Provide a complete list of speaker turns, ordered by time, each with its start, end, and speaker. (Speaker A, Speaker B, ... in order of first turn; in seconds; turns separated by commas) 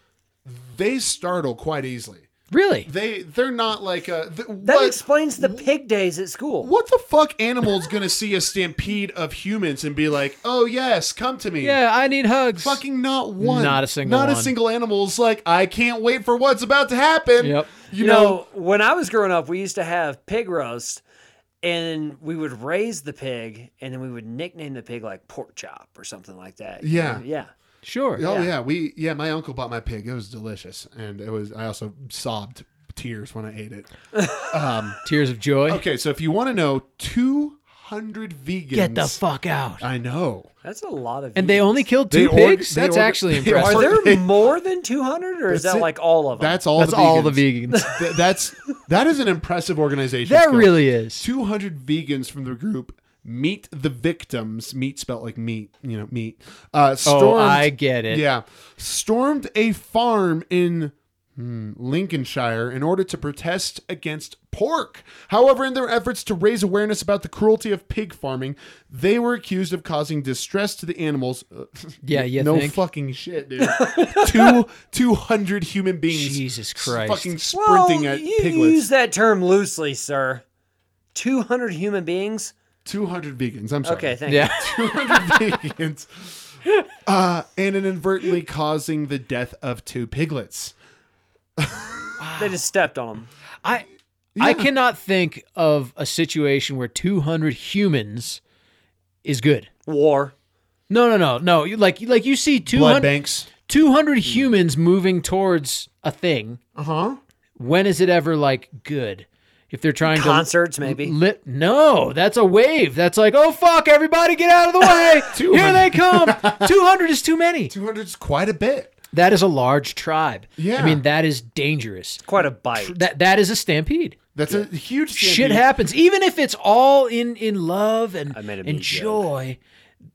Speaker A: 0.5-2.3, Speaker B: 2.5-2.9, Speaker A: 2.9-5.7, Speaker C: 4.7-6.7, Speaker A: 6.6-11.8, Speaker B: 11.6-12.8, Speaker A: 12.6-18.4, Speaker B: 13.4-14.5, Speaker B: 17.4-17.7, Speaker C: 18.0-21.0, Speaker C: 21.6-27.5, Speaker A: 26.8-27.2, Speaker B: 27.8-28.2, Speaker A: 28.2-33.9, Speaker C: 28.2-28.5, Speaker C: 34.1-34.5, Speaker A: 34.4-35.0, Speaker B: 35.0-35.8, Speaker A: 35.7-39.2, Speaker B: 38.7-39.8, Speaker A: 39.8-40.5, Speaker C: 40.6-41.9, Speaker B: 41.4-44.0, Speaker A: 42.1-44.4, Speaker C: 43.6-46.6, Speaker A: 45.5-78.8, Speaker B: 46.8-48.0, Speaker B: 50.3-51.3, Speaker B: 57.1-58.2, Speaker B: 72.0-72.8, Speaker C: 73.6-74.6, Speaker B: 76.1-77.3, Speaker C: 77.5-80.4, Speaker C: 81.1-82.5, Speaker A: 82.8-86.4, Speaker C: 83.8-84.6, Speaker B: 84.3-85.4, Speaker A: 87.0-90.7, Speaker A: 91.6-92.1, Speaker B: 92.2-92.6, Speaker C: 92.4-93.3, Speaker A: 94.4-94.7, Speaker B: 94.4-98.4, Speaker B: 99.2-99.7, Speaker C: 99.9-100.3, Speaker B: 100.9-106.6, Speaker A: 102.7-103.5, Speaker A: 106.8-107.2, Speaker B: 107.6-117.7, Speaker C: 110.1-111.1, Speaker A: 115.3-116.7, Speaker A: 117.7-118.9, Speaker B: 119.1-122.2, Speaker A: 120.6-121.0, Speaker C: 122.2-123.1, Speaker B: 122.8-124.2, Speaker A: 124.3-125.7, Speaker B: 125.2-129.6, Speaker C: 128.3-129.3